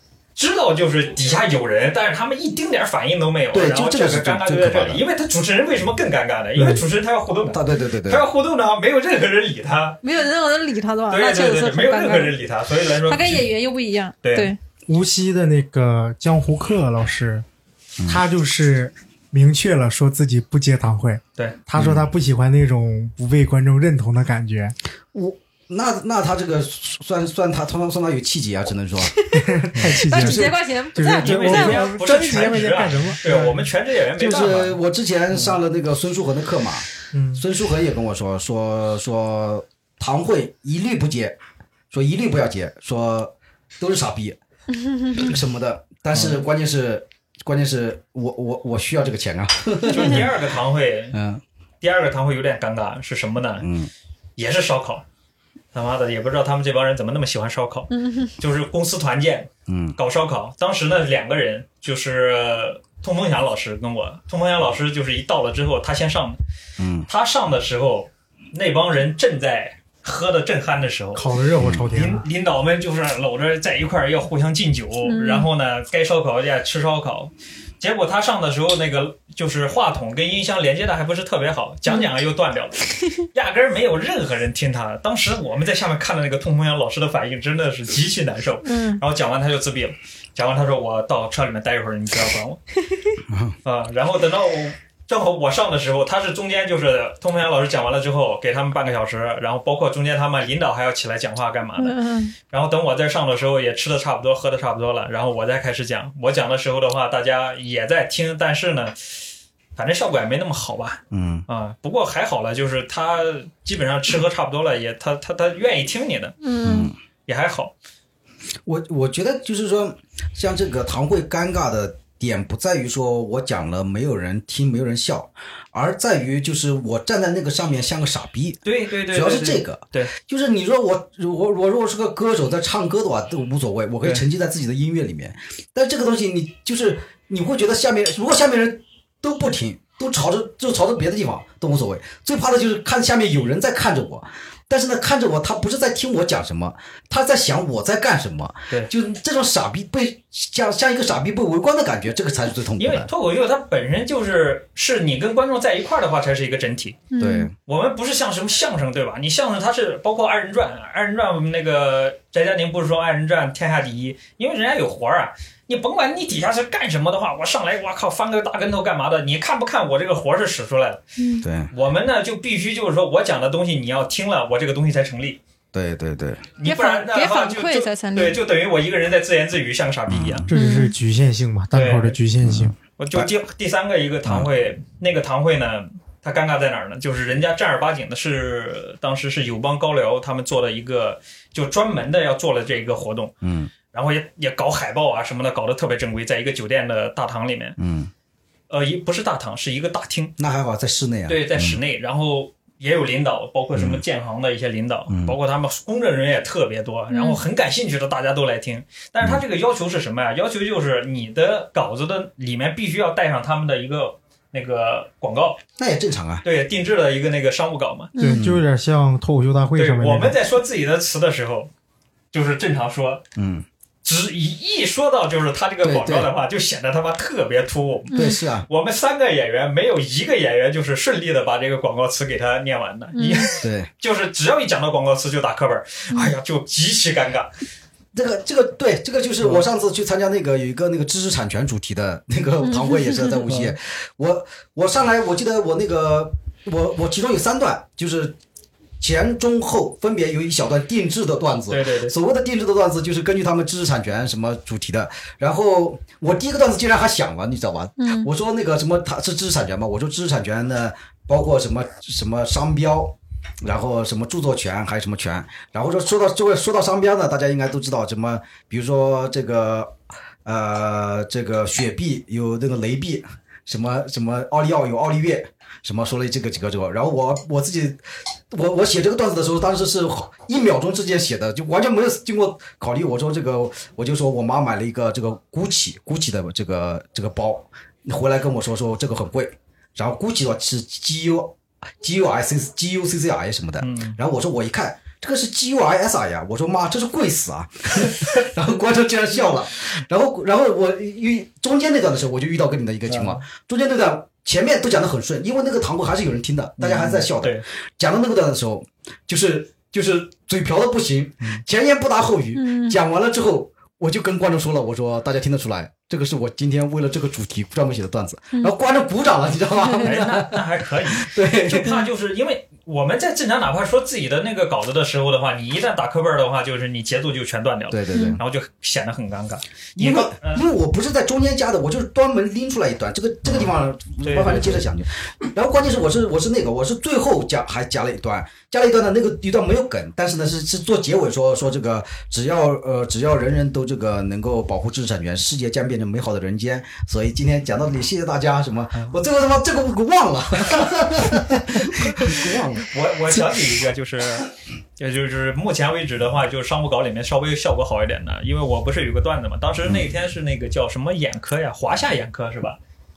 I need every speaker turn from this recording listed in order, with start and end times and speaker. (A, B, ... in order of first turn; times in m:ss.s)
0:00.4-0:10.0 A
0:03.5-0:05.0 B
0:06.6-0:06.8 C
0:07.5-0:08.2 B
0:10.0-0:12.4 D
0:11.1-0:13.5 A
0:13.0-0:14.6 D
0:14.2-0:14.5 A
0:14.9-0:17.4 C
0:18.0-0:18.2 B
0:18.1-0:24.8 C
0:21.8-0:22.1 B
0:25.1-0:30.6 B
0:29.3-0:33.6 C
0:30.1-0:32.0 D
0:31.2-0:34.8 A
0:34.2-0:41.4 B
0:37.1-0:37.4 C
0:41.9-0:44.4 B
0:44.8-0:45.3 D
0:45.1-0:50.3 B
0:46.1-0:46.4 A
0:49.9-0:51.2 A
0:51.1-0:51.4 B
0:51.8-0:53.6 A
0:53.6-0:53.9 B
0:54.4-0:55.0 A
0:55.7-1:06.4 A
0:57.9-0:58.3 D
0:59.7-1:00.0 B
1:06.8-1:07.1 B
1:07.1-1:11.3 A
1:11.2-1:12.2 C
1:11.6-1:11.9 B
1:11.9-1:32.6 A
1:15.0-1:15.5 D
1:28.6-1:29.0 D
1:33.3-1:33.6 B
1:33.6-1:42.0 A
1:41.8-1:42.3 D
1:42.5-1:49.2 A
1:49.8-1:56.4 A
1:51.1-1:51.4 B
1:56.4-1:56.9 D
1:56.6-1:57.0 B
1:57.3-1:57.7 A
1:58.6-2:33.1 B
2:08.6-2:10.1 A
2:32.8-2:37.1 A
2:37.1-2:37.5 D
2:37.2-2:37.5 B
2:37.6-2:51.0 A
2:51.2-2:51.4 D
2:51.4-2:51.7 B
2:51.7-2:55.4 A
2:55.7-2:56.5 B
2:56.6-3:00.5 A
2:56.6-2:58.4 D
3:00.1-3:00.4 B
3:00.5-3:02.7 C
3:00.5-3:00.9 D
3:01.7-3:02.2 A
3:02.4-3:03.3 B
3:03.0-3:13.3 A
3:04.2-3:04.5 B
3:13.4-3:13.7 B
3:13.9-3:17.8 A
3:17.8-3:18.1 B
3:18.7-3:20.3 A
3:20.4-3:21.8 B
3:21.3-3:35.6 A
3:23.7-3:24.0 B
3:25.1-3:25.3 B
3:27.1-3:27.4 D
3:35.8-3:36.4 B
3:36.4-3:38.1 A
3:38.2-3:38.4 D
3:38.2-3:38.6 B
3:38.2-3:40.4 C
3:39.8-3:41.7 A
3:42.3-3:43.2 A
3:43.4-3:43.6 B
3:44.0-3:57.5 A
3:45.8-3:46.3 B
3:48.1-3:48.4 D
3:48.1-3:48.7 B
3:53.1-3:53.5 D
3:53.6-3:53.9 B
3:58.1-4:08.4 B
4:02.7-4:03.4 D
4:03.5-4:03.7 A
4:09.0-5:22.0 B
4:11.7-4:12.1 A
4:18.0-4:18.3 D
4:53.8-4:54.2 A
5:03.1-5:03.4 A
5:06.8-5:07.6 A
5:12.5-5:13.0 D
5:19.8-5:20.1 D
5:20.0-5:30.6 A
5:27.9-5:28.4 B
5:28.1-5:28.4 D
5:30.0-5:52.9 B
5:33.4-5:33.7 A
5:34.2-5:34.8 A
5:51.8-6:02.8 A